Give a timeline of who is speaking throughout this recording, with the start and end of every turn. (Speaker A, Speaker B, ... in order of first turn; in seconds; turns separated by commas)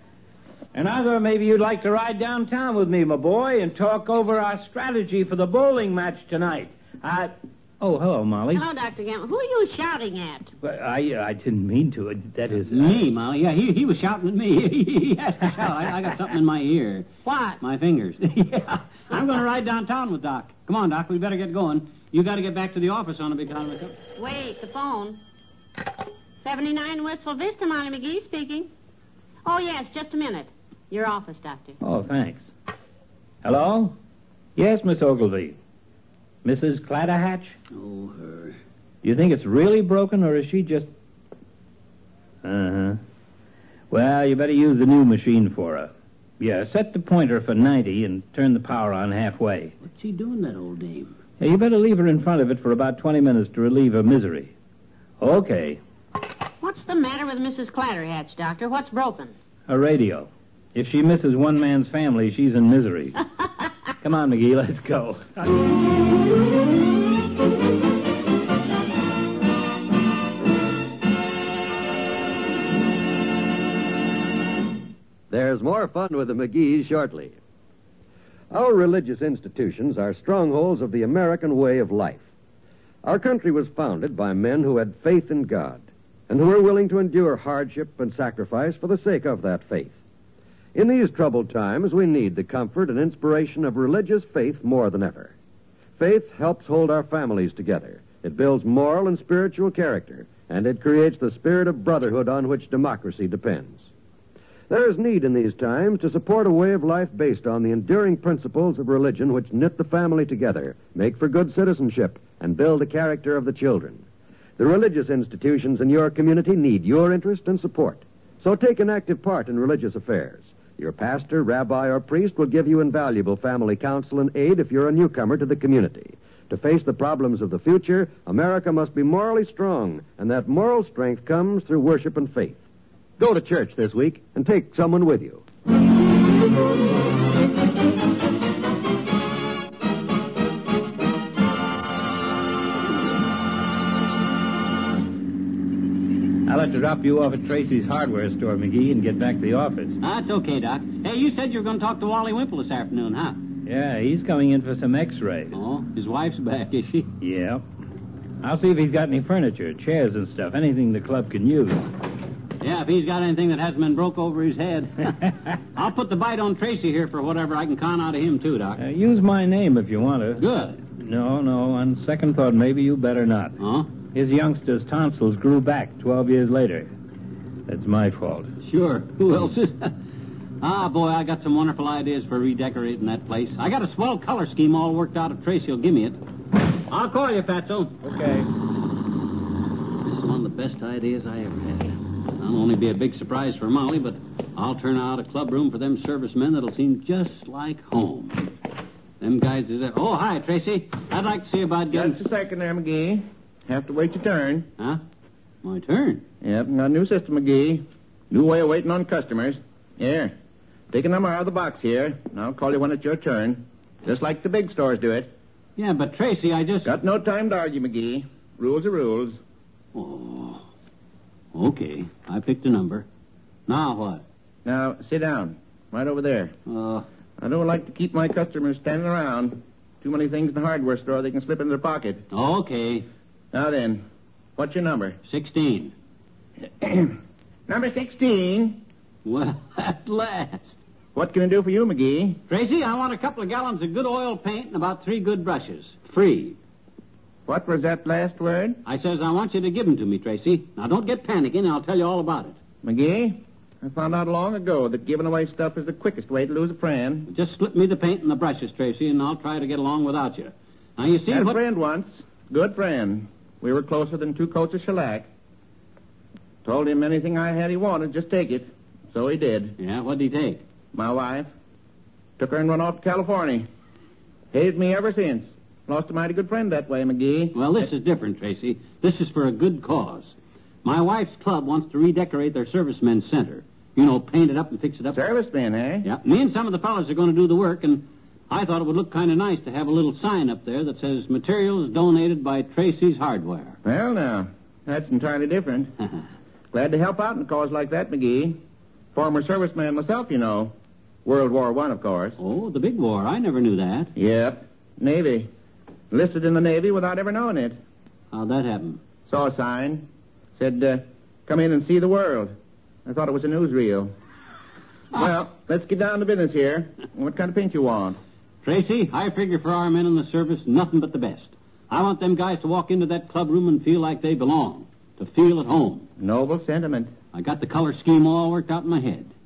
Speaker A: 0.7-8.7, Speaker B: 8.5-10.5, Speaker A: 10.6-13.0, Speaker C: 12.7-17.1, Speaker B: 17.2-17.6, Speaker C: 17.6-24.0, Speaker B: 24.2-25.2, Speaker B: 26.4-28.7, Speaker B: 29.4-31.8, Speaker A: 31.8-32.5, Speaker A: 33.4-34.0, Speaker A: 34.6-35.6, Speaker A: 36.5-37.5, Speaker C: 37.8-38.6, Speaker A: 39.0-40.9, Speaker A: 42.4-43.0, Speaker A: 43.9-49.7, Speaker C: 49.8-51.2, Speaker A: 51.4-54.5, Speaker A: 55.2-55.8, Speaker B: 56.6-59.3, Speaker A: 59.7-63.2, Speaker A: 64.0-65.6, Speaker D: 75.3-77.3, Speaker D: 78.5-82.2, Speaker D: 83.0-89.9, Speaker D: 90.8-95.3, Speaker D: 96.0-103.8, Speaker D: 104.7-114.0, Speaker D: 114.6-132.6, Speaker D: 133.2-135.4, Speaker A: 146.5-150.0, Speaker C: 150.0-153.4, Speaker A: 153.7-155.6, Speaker C: 155.5-157.1, Speaker A: 157.2-157.6, Speaker A: 158.4-161.9, Speaker C: 162.6-168.8, Speaker A: 168.8-176.9, Speaker C: 170.4-170.8, Speaker C: 173.6-173.9, Speaker A: 177.7-178.6, Speaker C: 178.6-180.0, Speaker C: 180.6-186.2, Speaker C: 186.9-188.0, Speaker C: 190.0-198.5, Speaker C: 199.2-202.2, Speaker E: 201.9-204.7, Speaker C: 205.6-206.2, Speaker E: 206.4-210.3, Speaker E: 210.9-215.3, Speaker C: 215.8-216.9, Speaker E: 216.8-219.4, Speaker C: 220.0-220.7, Speaker C: 221.5-223.1, Speaker C: 223.7-224.2, Speaker E: 224.7-226.5, Speaker C: 226.7-227.1, Speaker E: 227.4-232.2, Speaker C: 232.3-233.1, Speaker E: 233.5-234.0, Speaker E: 234.6-235.2, Speaker C: 235.3-235.9, Speaker E: 236.8-238.8, Speaker C: 239.2-240.7, Speaker E: 241.2-242.4, Speaker C: 242.5-246.6, Speaker E: 247.5-248.8, Speaker C: 248.8-252.6, Speaker E: 252.8-257.3, Speaker C: 257.3-261.6, Speaker E: 261.3-265.3, Speaker E: 266.6-269.8, Speaker C: 269.8-270.6, Speaker E: 270.9-271.5, Speaker E: 272.4-273.7, Speaker E: 274.5-277.7, Speaker C: 277.5-280.3, Speaker C: 280.8-285.2, Speaker E: 285.1-286.1, Speaker C: 286.0-293.8, Speaker E: 293.9-295.9, Speaker E: 296.7-298.6, Speaker E: 299.1-300.7, Speaker E: 301.2-302.4, Speaker C: 302.4-304.1, Speaker E: 304.2-305.5, Speaker E: 306.1-307.8, Speaker C: 308.3-309.0, Speaker E: 309.3-310.1, Speaker E: 310.6-312.5, Speaker E: 313.1-314.1, Speaker E: 315.2-318.2, Speaker C: 318.6-326.1, Speaker E: 326.2-327.1, Speaker C: 327.3-329.3